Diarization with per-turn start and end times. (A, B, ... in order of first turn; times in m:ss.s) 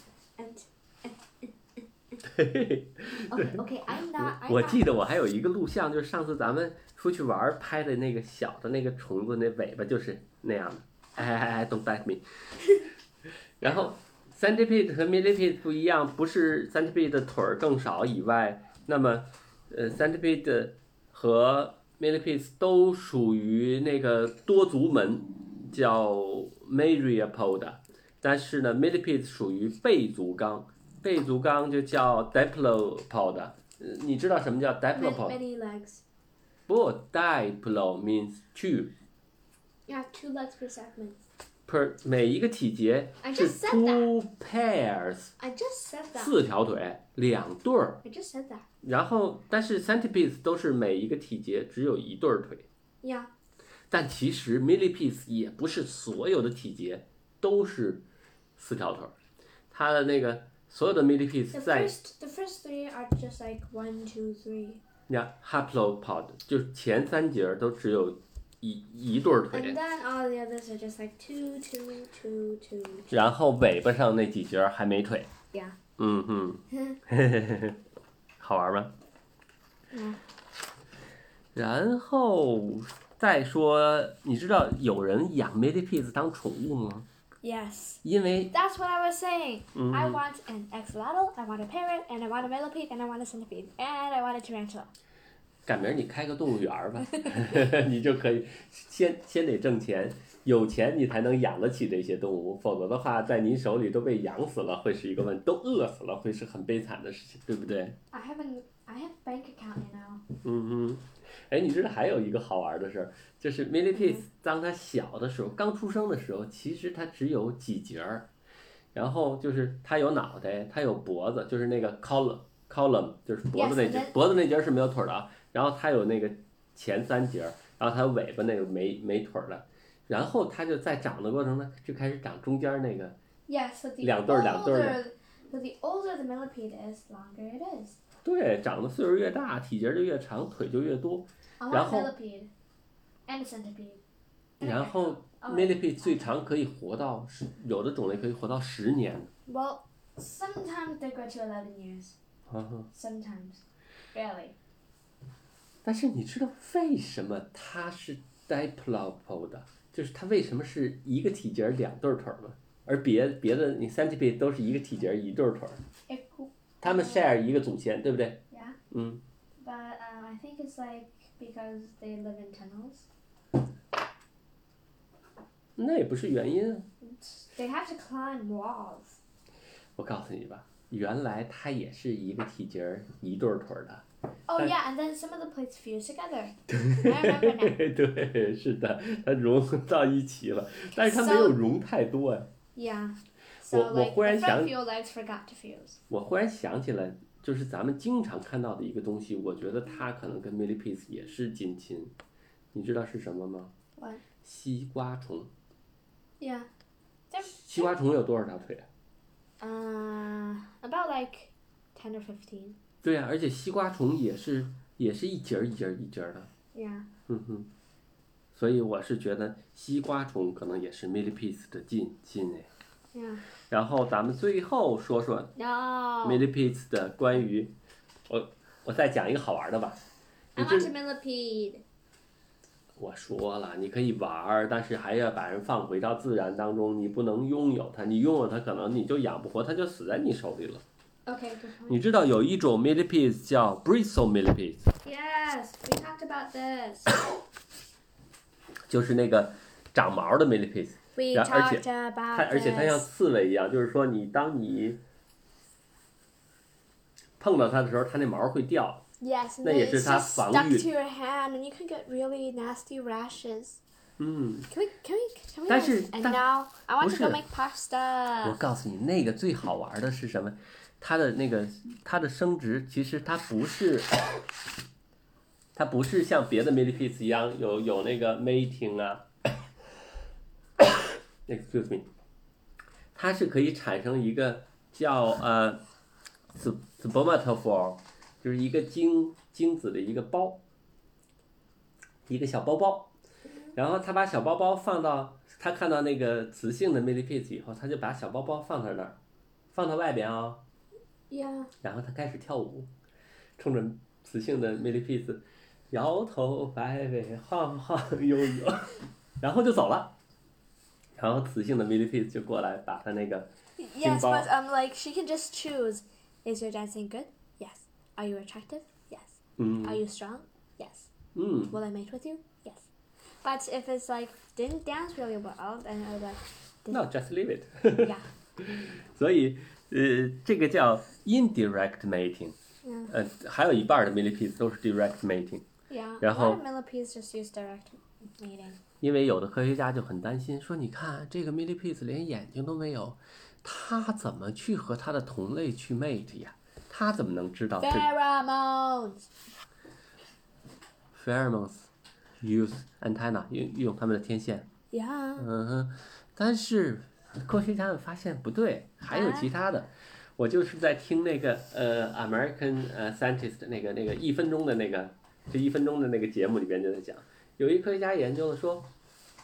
0:00.4-0:02.2 A
0:02.2-0:03.6 B
0:03.3-0:04.9 A
0:04.2-0:12.2 B
0:13.6-0:35.4 B
0:13.6-0:13.9 A
0:34.9-0:36.0 A
0:36.7-0:38.9 B
0:39.9-0:41.2 A
0:41.7-0:45.3 B
0:43.2-0:44.1 A
0:45.4-0:46.3 A
0:46.1-0:48.0 B
0:48.0-0:48.6 A
0:48.8-0:52.7 B
0:53.0-0:53.3 A
0:53.9-0:59.2 B
0:59.7-1:01.9 B
1:01.5-1:04.8 A
1:05.1-1:09.8 B
1:09.5-1:13.2 A
1:13.1-1:15.3 B
1:16.0-1:17.8 B
1:16.7-1:17.0 A
1:18.4-1:18.9 B
1:19.9-1:20.2 A
1:21.5-1:27.1 B
1:27.4-1:34.9 A
1:28.0-1:28.5 B
1:29.7-1:30.2 B
1:35.6-1:48.0 B
1:48.1-1:50.2 A
1:50.4-1:58.3 B
1:53.9-1:54.2 A
1:58.9-2:13.2 B
2:03.5-2:04.1 A
2:13.5-2:18.0 A
2:14.0-2:15.0 B
2:18.2-2:22.1 B
2:21.6-2:22.5 A
2:23.3-2:24.0 A
2:24.6-2:26.4 A
2:24.6-2:29.3 B
2:29.4-2:32.2 A
2:32.5-2:32.9 B
2:32.9-2:34.6 A
2:35.8-2:45.8 B
2:46.1-2:47.3 A
2:46.8-2:49.2 B
2:48.5-2:48.8 A
2:49.6-2:53.1 A
2:55.8-2:56.9 B
2:57.0-2:59.2 A
3:00.0-3:04.0 B
3:04.5-3:07.8 A
3:06.7-3:12.5 B
3:10.9-3:11.6 A
3:12.7-3:16.0 A
3:13.7-3:14.7 B
3:16.1-3:22.1 B
3:22.7-3:23.7 B
3:24.0-3:24.2 A
3:24.4-3:25.5 B
3:26.4-3:26.7 A
3:27.3-3:27.9 A
3:27.5-3:28.9 B
3:29.6-3:32.8 A
3:33.0-3:36.5 B
3:36.7-3:37.1 A
3:37.3-3:37.7 B
3:38.5-3:42.7 B
3:43.1-3:43.4 A
3:43.7-3:45.5 B
3:45.6-3:46.4 A
3:46.2-3:47.7 B
3:48.3-3:50.0 B
3:50.6-3:50.9 B
3:50.6-3:51.8 A
3:53.0-4:00.8 B
4:01.2-4:02.0 A
4:01.9-4:04.8 B
4:05.0-4:07.2 A
4:08.9-4:15.0 B
4:11.2-4:13.1 A
4:17.4-4:19.0 B
4:19.2-4:23.8 A
4:19.6-4:20.9 B
4:24.2-4:24.7 B
4:24.7-4:28.6 A
4:25.7-4:27.4 B
4:28.4-4:34.1 B
4:35.7-4:39.6 B
4:40.8-4:42.1 B
4:43.1-4:45.8 B
4:46.5-4:50.6 B
4:52.3-4:53.1 B
4:53.7-4:59.2 B
4:59.7-5:00.6 B
5:01.3-5:01.7 A
5:01.8-5:02.9 B
5:03.6-5:10.2 B
5:11.2-5:14.5 B
5:13.8-5:21.1 A
5:19.6-5:20.0 B
5:21.3-5:21.8 B
5:21.7-5:22.9 A
5:23.4-5:27.1 A
5:26.9-5:32.6 B
5:28.0-5:28.3 A
5:32.8-5:33.1 A
5:33.1-5:35.6 B
5:35.9-5:38.8 A
5:36.2-5:36.6 B
5:39.0-5:48.1 B
5:47.8-5:49.3 A
5:51.1-5:51.9 B
5:52.4-5:54.7 B
5:54.9-5:55.5 A
5:55.4-6:08.9 B
5:59.1-5:59.5 A